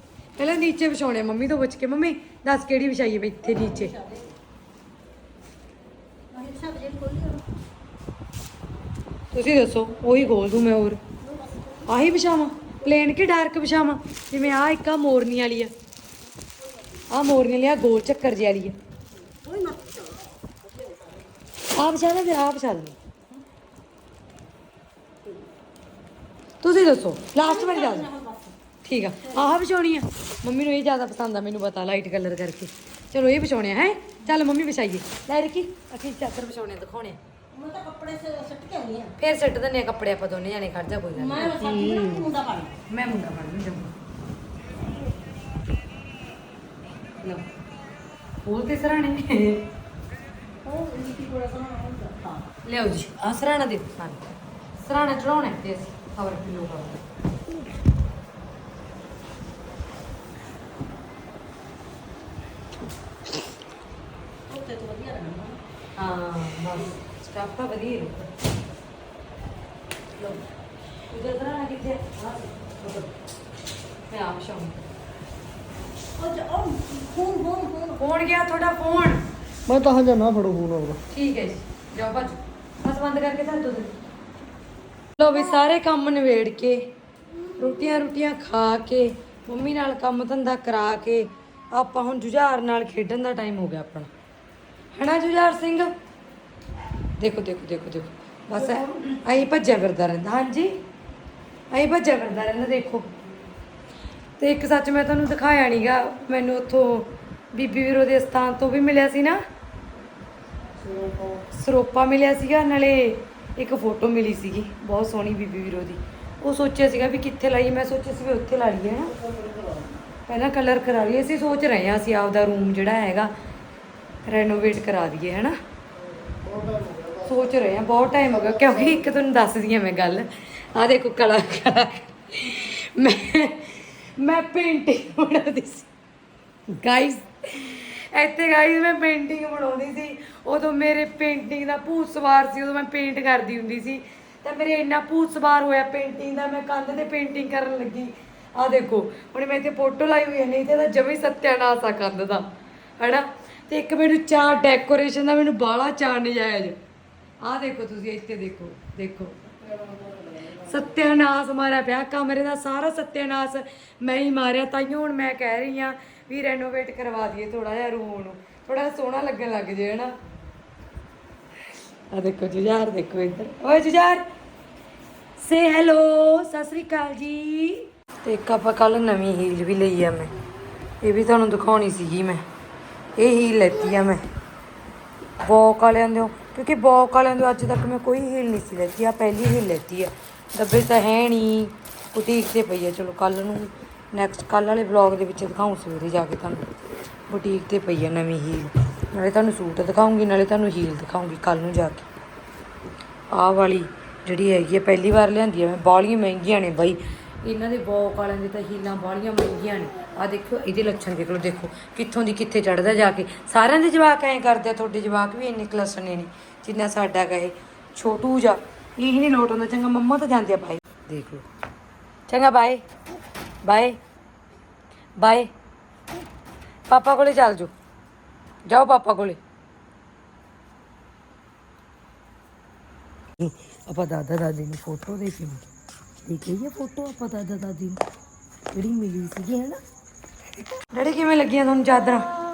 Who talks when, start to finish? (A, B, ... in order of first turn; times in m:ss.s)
0:00.4-0:04.0 A
0:06.3-0:07.4 B
0:09.3-0:11.0 A
0:11.2-0:11.8 B
0:11.8-0:15.7 A
0:17.1-0:18.8 A
0:19.4-0:20.2 B
0:21.7-0:23.0 A
0:26.6-0:28.1 A
0:27.4-0:28.5 B
0:28.8-0:37.2 A
0:37.5-0:39.1 B
0:39.2-0:41.9 A
0:41.2-0:42.8 B
0:42.9-0:44.0 A
0:48.4-0:49.6 A
0:50.6-0:52.4 B
0:52.6-0:54.2 A
0:54.8-0:57.0 A
1:04.5-1:05.6 B
1:06.0-1:08.3 A
1:10.2-1:10.4 A
1:11.1-1:13.1 A
1:14.1-1:14.8 A
1:16.2-1:18.0 B
1:17.9-1:19.2 A
1:19.6-1:21.0 C
1:21.1-1:24.0 A
1:25.2-1:26.9 A
1:27.6-1:34.1 A
1:34.9-1:35.9 A
1:37.2-1:40.8 A
1:38.7-1:39.2 C
1:41.7-1:43.1 A
1:44.4-1:49.4 A
1:50.8-1:51.4 C
1:51.5-1:59.2 A
1:59.2-1:59.9 C
2:00.2-2:03.3 A
2:04.2-2:05.6 A
2:06.2-2:07.2 C
2:07.2-2:15.9 A
2:16.7-2:32.5 A
2:33.0-2:36.8 A
2:37.4-2:39.4 A
2:39.8-2:40.2 B
2:40.5-2:50.1 A
2:52.1-2:54.2 A
2:55.4-3:00.4 A
3:01.0-3:02.4 A
3:03.2-3:04.2 A
3:05.4-3:16.7 A
3:17.3-3:22.1 A
3:23.3-3:41.4 A
3:42.3-3:42.9 A
3:43.6-3:44.0 A
3:45.2-3:45.5 A
3:46.9-3:47.7 A
3:48.6-3:49.4 A
3:53.4-3:55.6 A
3:56.2-3:58.0 A
3:58.7-3:59.8 A
4:00.9-4:02.4 A